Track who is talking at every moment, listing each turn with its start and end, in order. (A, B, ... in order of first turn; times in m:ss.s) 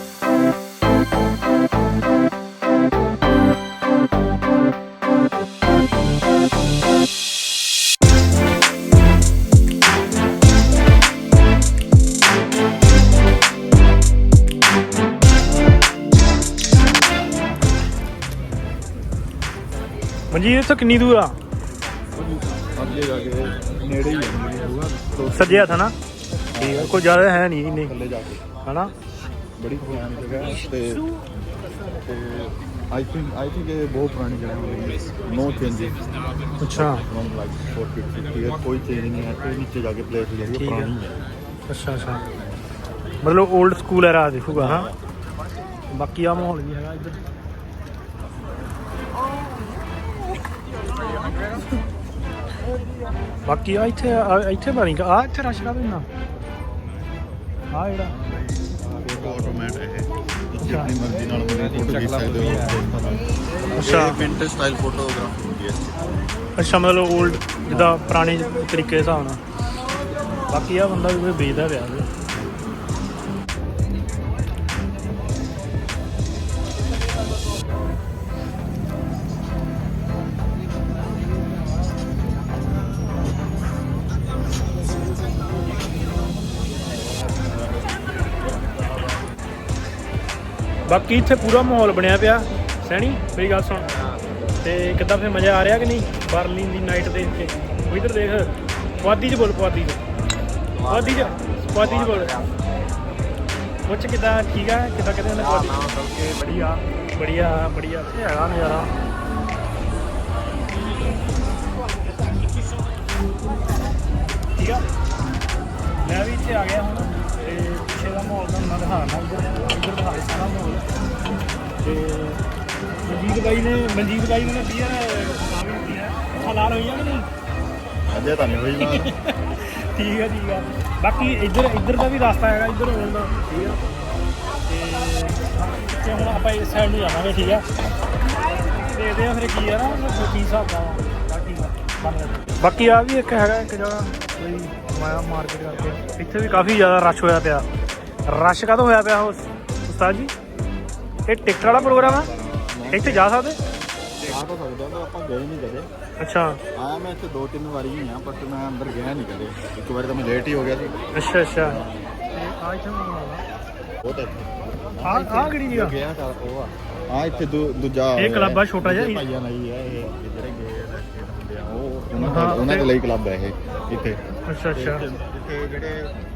0:20.3-0:21.4 A
0:22.2-0:25.8 B
0:25.3-0:26.0 A
0:26.5-0:28.5 B
0:26.6-0:27.9 A
0:28.6-0:28.9 A
0:29.6-0:31.1 B
0:29.8-0:30.6 A
0:32.0-0:36.0 B
0:36.6-0:37.0 A
0:36.6-0:41.2 B
0:40.5-0:40.9 A
0:41.7-0:42.3 A
0:43.2-0:44.9 A
0:44.5-0:45.0 B
0:45.9-0:47.2 A
0:53.5-0:56.1 A
0:57.7-0:58.2 A
0:58.0-1:06.0 B
0:58.8-0:59.7 C
1:00.6-1:00.9 A
1:01.6-1:02.8 C
1:03.6-1:03.9 C
1:03.8-1:04.2 A
1:06.6-1:09.4 A
1:07.7-1:08.1 B
1:10.5-1:12.1 A
1:26.9-1:29.4 B
1:30.9-1:33.9 A
1:34.6-1:40.0 A
1:40.8-1:42.6 C
1:40.9-1:42.4 A
1:43.9-1:45.9 A
1:45.4-1:46.8 C
1:46.5-1:48.9 A
1:54.6-1:54.9 A
1:56.0-2:00.9 A
2:01.8-2:02.4 A
2:03.0-2:07.3 A
2:08.1-2:09.1 B
2:08.8-2:13.8 A
2:14.7-2:17.7 A
2:18.3-2:27.7 A
2:28.3-2:30.3 A
2:31.3-2:32.3 A
2:31.6-2:33.4 B
2:32.9-2:33.6 A
2:34.2-2:35.9 B
2:36.2-2:36.6 A
2:36.8-2:41.0 B
2:41.2-2:41.8 A
2:41.6-2:42.1 B
2:42.3-2:43.4 A
2:44.0-2:54.2 B
2:45.0-2:46.0 A
2:48.2-2:49.2 A
2:52.2-2:52.9 A
2:54.5-2:55.0 A
2:54.7-2:56.1 B